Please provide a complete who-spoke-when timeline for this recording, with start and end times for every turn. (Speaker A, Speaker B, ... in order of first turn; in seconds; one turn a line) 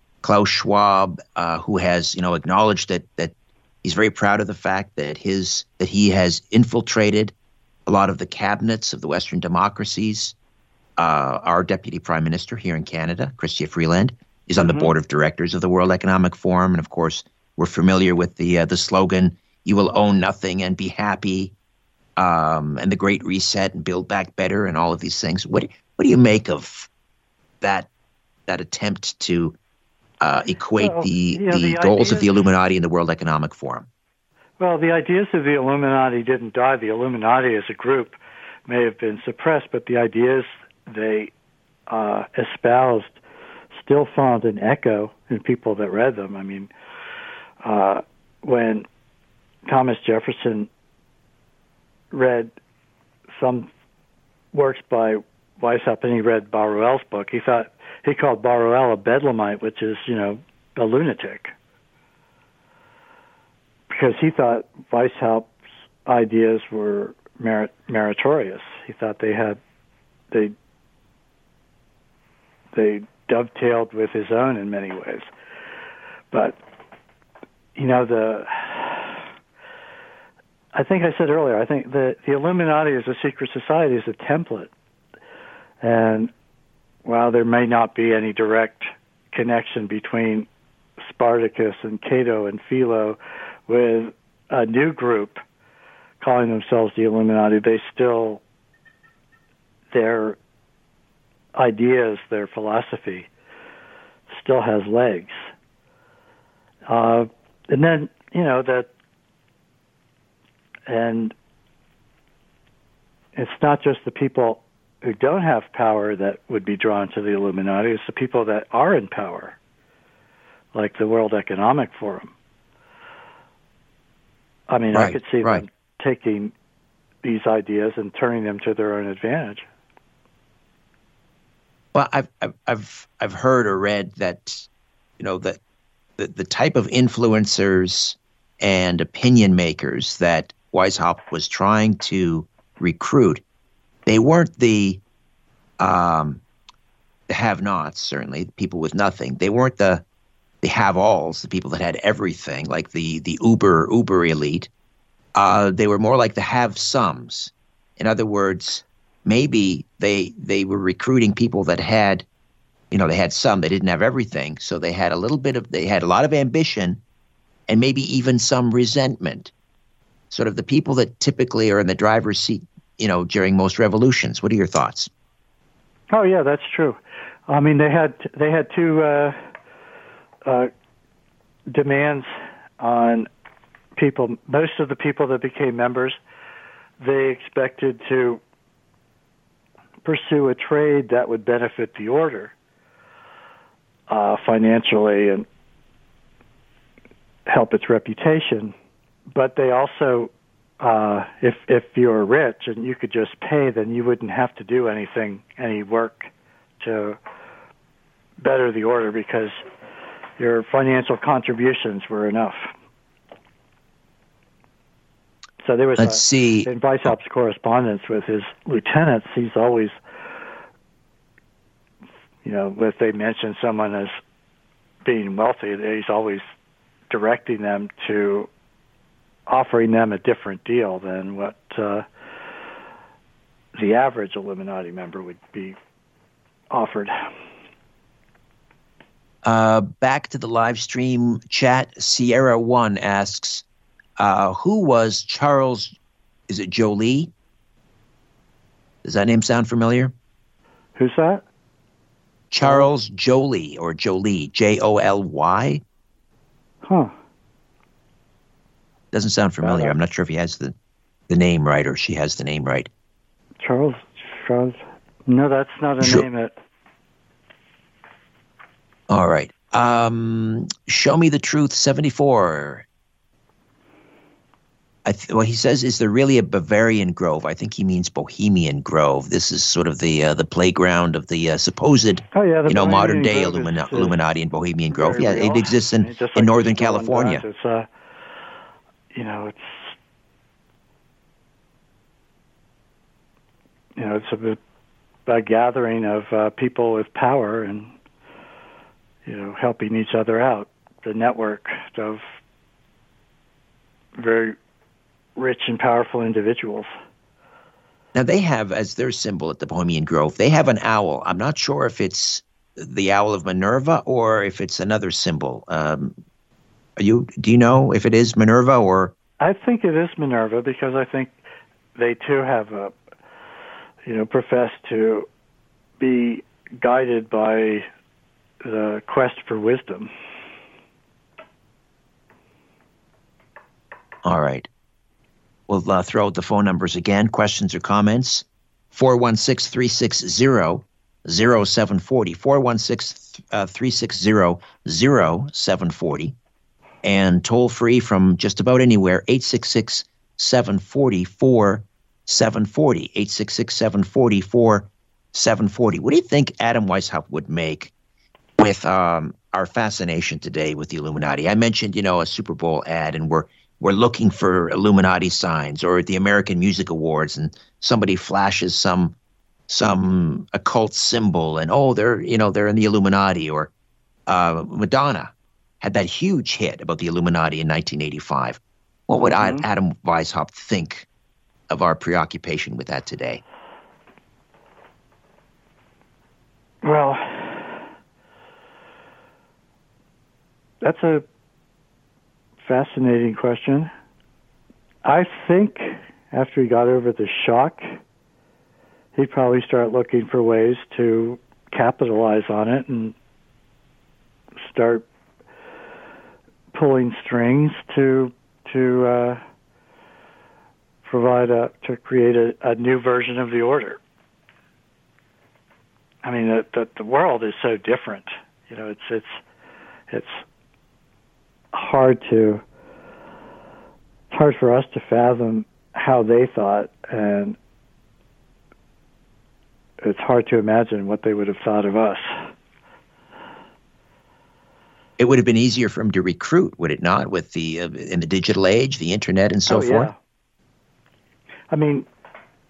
Speaker A: 0.2-7.3
Speaker A: 7.9-10.3
Speaker A: 11.0-21.5
Speaker B: 14.6-14.9
Speaker A: 22.2-26.9
Speaker A: 27.6-27.9
Speaker A: 28.5-29.6
Speaker A: 30.2-33.9
Speaker B: 30.8-32.3
Speaker B: 34.6-41.3
Speaker B: 41.9-43.2
Speaker B: 43.7-46.7
Speaker B: 47.6-48.9
Speaker B: 49.6-50.7
Speaker B: 52.1-52.5
Speaker B: 53.3-53.7
Speaker B: 54.5-61.5
Speaker B: 63.9-65.5
Speaker B: 66.0-69.6
Speaker B: 72.7-75.3
Speaker B: 76.3-76.6
Speaker B: 77.8-79.2
Speaker B: 80.7-84.7
Speaker B: 85.8-86.3
Speaker B: 87.0-90.5
Speaker B: 91.0-95.4
Speaker B: 96.2-98.4
Speaker B: 99.9-100.4
Speaker B: 101.5-103.3
Speaker B: 104.3-105.5
Speaker B: 106.9-108.9
Speaker B: 110.9-111.3
Speaker B: 113.3-119.5
Speaker B: 120.7-122.3
Speaker B: 124.7-126.5
Speaker A: 124.9-125.6
Speaker B: 127.2-129.7
Speaker A: 131.9-134.7
Speaker A: 135.2-135.6
Speaker A: 136.2-143.4
Speaker A: 144.1-145.0
Speaker A: 145.8-146.4
Speaker A: 147.3-150.0
Speaker A: 150.6-154.7
Speaker A: 155.3-162.2
Speaker A: 162.9-167.0
Speaker A: 167.7-169.5
Speaker A: 170.3-175.1
Speaker B: 176.1-179.4
Speaker B: 181.7-183.3
Speaker B: 183.9-186.2
Speaker B: 187.0-188.4
Speaker B: 190.0-192.5
Speaker B: 194.1-195.4
Speaker B: 197.5-198.7
Speaker B: 199.3-207.2
Speaker B: 208.4-209.6
Speaker B: 210.4-212.7
Speaker B: 215.6-220.0
Speaker A: 215.9-217.1
Speaker B: 222.4-224.2
Speaker B: 225.0-226.4
Speaker B: 227.1-228.5
Speaker B: 229.5-232.1
Speaker B: 233.8-235.8
Speaker B: 236.7-237.2
Speaker A: 239.4-243.6
Speaker A: 244.2-245.9
Speaker A: 246.5-247.3
Speaker A: 249.0-250.1
Speaker B: 251.0-251.4
Speaker A: 252.5-255.8
Speaker B: 252.6-252.9
Speaker B: 256.8-257.1
Speaker A: 259.1-260.7
Speaker B: 259.6-259.9
Speaker A: 261.3-262.9
Speaker B: 263.6-266.5
Speaker A: 269.1-272.9
Speaker A: 275.0-287.4
Speaker B: 282.3-284.2
Speaker B: 284.9-287.9
Speaker B: 289.1-289.9
Speaker B: 294.0-294.6
Speaker B: 295.2-297.9
Speaker B: 299.2-302.2
Speaker B: 304.2-304.6
Speaker B: 305.4-306.9
Speaker A: 308.1-316.2
Speaker A: 317.0-319.1
Speaker B: 319.4-321.4
Speaker B: 321.9-322.9
Speaker B: 324.0-325.3
Speaker B: 326.0-327.9
Speaker B: 328.6-330.1
Speaker A: 334.2-334.7
Speaker A: 335.7-346.3
Speaker A: 347.0-357.9
Speaker A: 358.6-369.1
Speaker A: 369.7-373.7
Speaker A: 374.3-381.1
Speaker B: 379.2-379.6
Speaker A: 381.7-383.4
Speaker B: 386.8-387.8
Speaker B: 390.8-391.2
Speaker B: 392.6-393.9
Speaker B: 395.0-398.0
Speaker B: 399.1-403.1
Speaker B: 404.6-405.0
Speaker B: 406.7-409.4
Speaker B: 411.0-414.0
Speaker B: 416.2-419.4
Speaker B: 420.1-420.4
Speaker B: 421.7-422.6
Speaker B: 424.3-427.6
Speaker B: 430.0-432.4
Speaker A: 435.2-440.1
Speaker B: 439.7-440.1
Speaker B: 441.7-442.1